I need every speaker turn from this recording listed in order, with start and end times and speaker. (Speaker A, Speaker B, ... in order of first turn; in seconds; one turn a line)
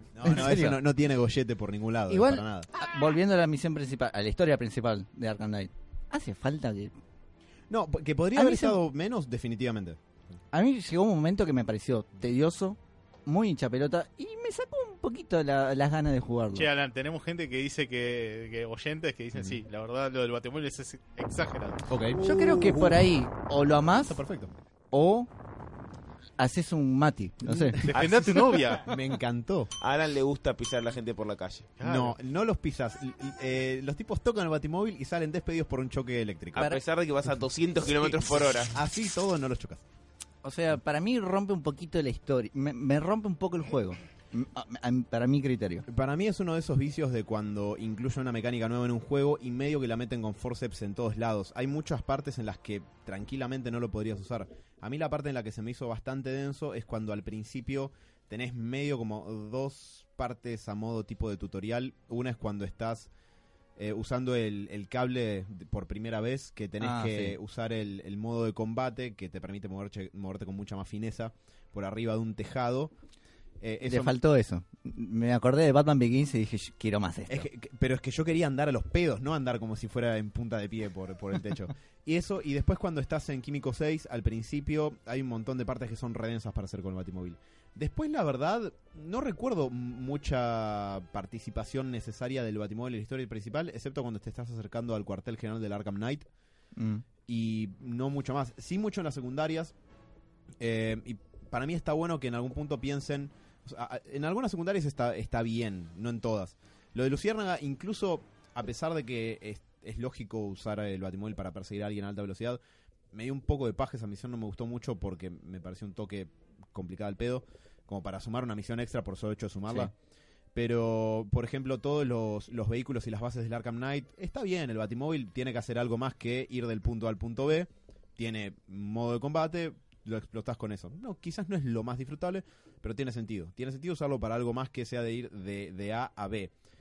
Speaker A: 0.1-2.7
Speaker B: 0.2-0.8
Speaker B: 2.1-7.0
Speaker A: 7.7-10.0
Speaker B: 8.4-8.8
Speaker B: 10.5-16.7
Speaker C: 16.5-21.8
Speaker A: 21.9-23.0
Speaker B: 22.1-24.2
Speaker A: 24.1-24.5
Speaker B: 24.9-25.3
Speaker B: 26.4-27.9
Speaker A: 27.4-29.7
Speaker C: 27.8-28.9
Speaker D: 29.8-31.8
Speaker C: 31.8-32.2
Speaker A: 31.8-36.8
Speaker D: 36.5-38.7
Speaker B: 36.6-36.8
Speaker A: 38.7-39.8
Speaker B: 40.4-45.9
Speaker A: 45.9-63.1
Speaker A: 63.8-72.9
Speaker B: 66.8-67.4
Speaker A: 73.6-74.2
Speaker B: 73.8-77.5
Speaker A: 77.3-96.3
Speaker B: 96.8-97.0
Speaker A: 97.3-99.7
Speaker A: 100.6-112.6
Speaker A: 113.1-119.9
Speaker A: 120.5-136.5